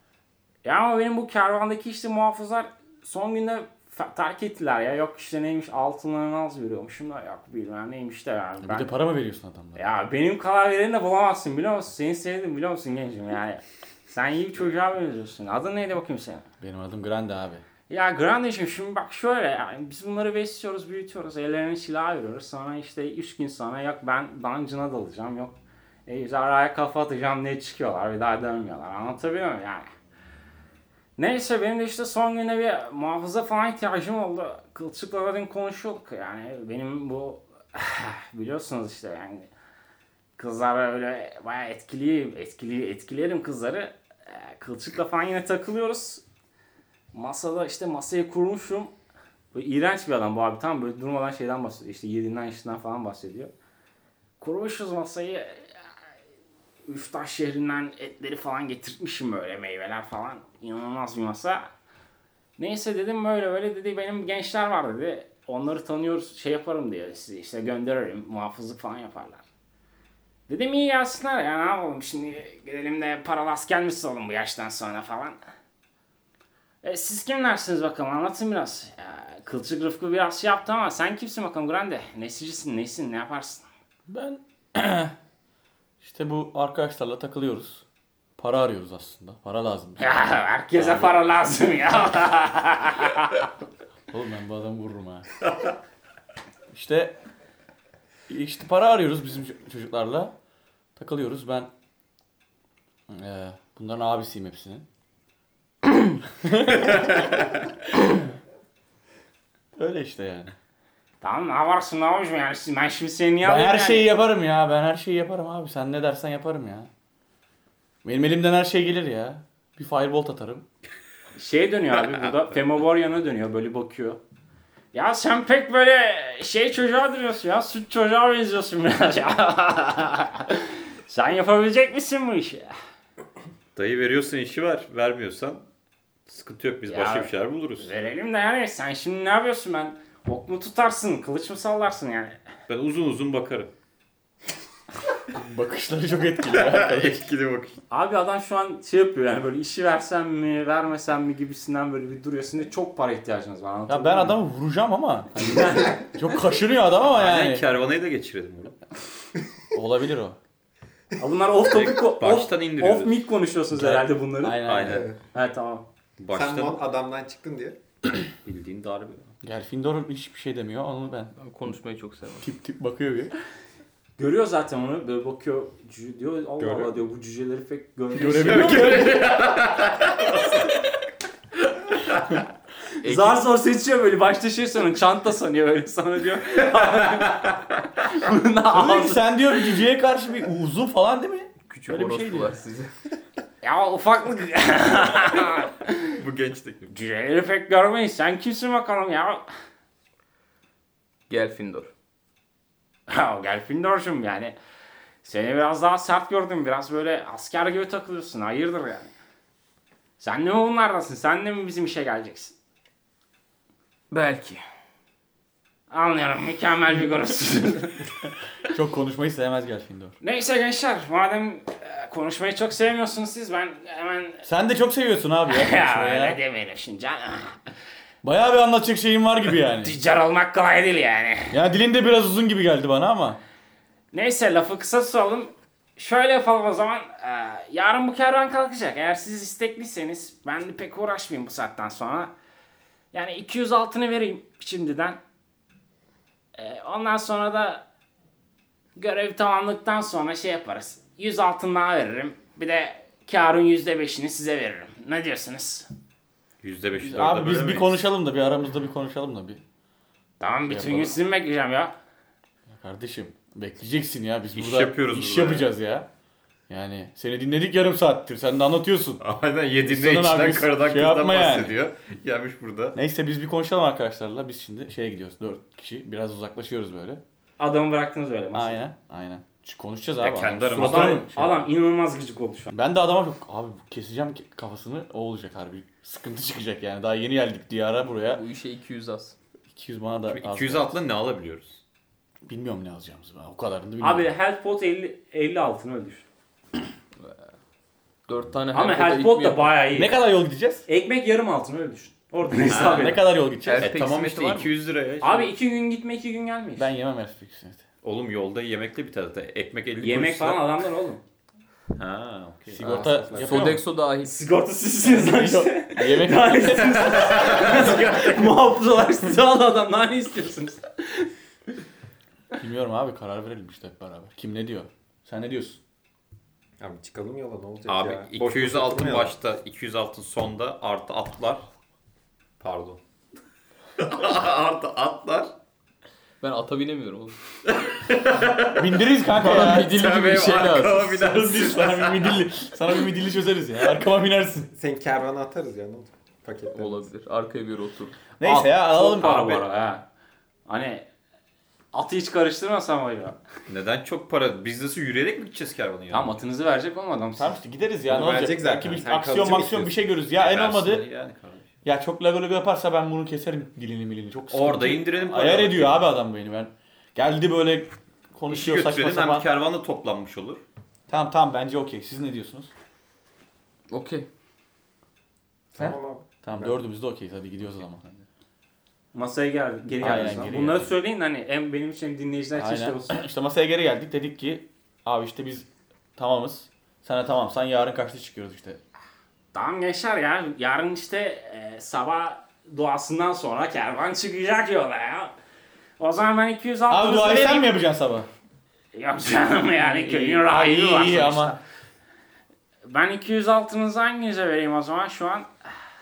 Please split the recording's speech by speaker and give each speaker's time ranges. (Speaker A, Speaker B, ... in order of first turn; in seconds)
Speaker A: 0.6-8.9, 9.8-16.5, 17.9-25.6, 26.1-29.9, 31.2-39.5, 40.4-46.2, 47.1-48.9, 49.5-53.5, 54.4-55.8, 56.9-61.7, 62.6-69.4, 70.5-75.4, 76.8-83.7, 90.0-93.4, 111.2-114.1, 121.4-124.2, 124.9-132.7, 136.9-142.4, 147.9-154.4, 155.4-156.0, 161.2-164.8, 165.3-165.8, 174.2-179.2, 183.0-189.3, 193.6-196.2, 196.9-199.5, 203.1-204.6, 205.2-209.1, 210.2-212.5, 215.9-218.1, 220.2-224.5, 225.5-227.6, 229.8-231.6, 234.1-242.3, 243.1-245.2, 246.6-247.8, 249.0-255.9, 260.4-261.9, 277.6-278.8, 280.8-282.7, 294.0-296.3, 298.7-300.2, 300.9-303.2, 305.2-306.9, 310.0-311.2, 313.5-321.3, 348.4-350.1, 350.7-351.1, 351.9-353.4, 356.1-357.6, 379.1-383.2, 389.5-395.4, 396.0-397.7, 398.9-401.6, 402.9-405.5
Speaker B: 8.6-9.8, 16.6-17.6, 84.1-85.1, 86.0-87.8, 88.4-90.0, 94.1-95.3, 96.7-97.2, 98.3-100.3, 101.0-101.7, 103.1-104.8, 106.3-107.3, 109.8-110.5, 113.4-116.9, 118.0-120.7, 145.3-147.2, 153.9-157.7, 159.7-160.4, 163.7-165.1, 169.4-171.3, 172.4-173.3, 178.1-179.2, 188.7-192.6, 218.7-220.2, 224.5-226.4, 228.2-229.9, 231.5-233.4, 257.0-259.6, 260.7-261.2, 262.7-266.1, 266.7-269.2, 269.8-271.8, 272.9-277.2, 278.5-281.6, 282.7-288.4, 289.7-291.0, 292.5-294.3, 299.9-300.9, 302.7-303.9, 306.8-307.9, 312.7-313.8, 315.1-317.3, 322.6-325.8, 338.8-340.0, 341.2-344.7, 348.4-349.6, 357.4-361.1, 361.9-369.5, 371.1-372.7, 375.8-378.0, 380.0-380.9, 382.6-388.8, 396.9-398.3, 400.0-401.6
Speaker C: 133.8-135.7, 136.3-137.9, 142.7-143.7, 146.6-147.8, 157.2-158.8, 161.7-163.3, 164.6-165.1, 166.2-166.8, 168.4-169.3, 178.5-180.7, 182.0-182.4, 196.2-196.9, 256.6-258.0, 264.5-265.7, 269.2-273.0, 280.2-281.3, 290.3-291.8, 302.7-303.2, 303.8-305.5, 308.0-310.6, 312.0-313.0, 317.3-318.0, 327.9-331.6, 332.6-333.0, 334.0-335.5, 337.7-338.9, 339.9-342.5, 353.7-356.4, 360.4-361.7, 364.5-366.1, 368.5-370.6
Speaker D: 164.8-165.2, 166.3-167.8, 176.6-176.9, 312.8-313.7, 326.8-329.4, 344.7-347.1, 358.1-359.9, 375.7-376.8
Speaker E: 171.4-172.5, 183.0-183.4, 191.7-192.9, 201.3-201.9, 214.1-214.6, 288.2-289.4, 297.2-297.5, 298.3-299.8, 303.6-304.7, 313.4-314.3, 336.4-337.4, 339.4-341.2, 346.7-348.2, 373.9-374.3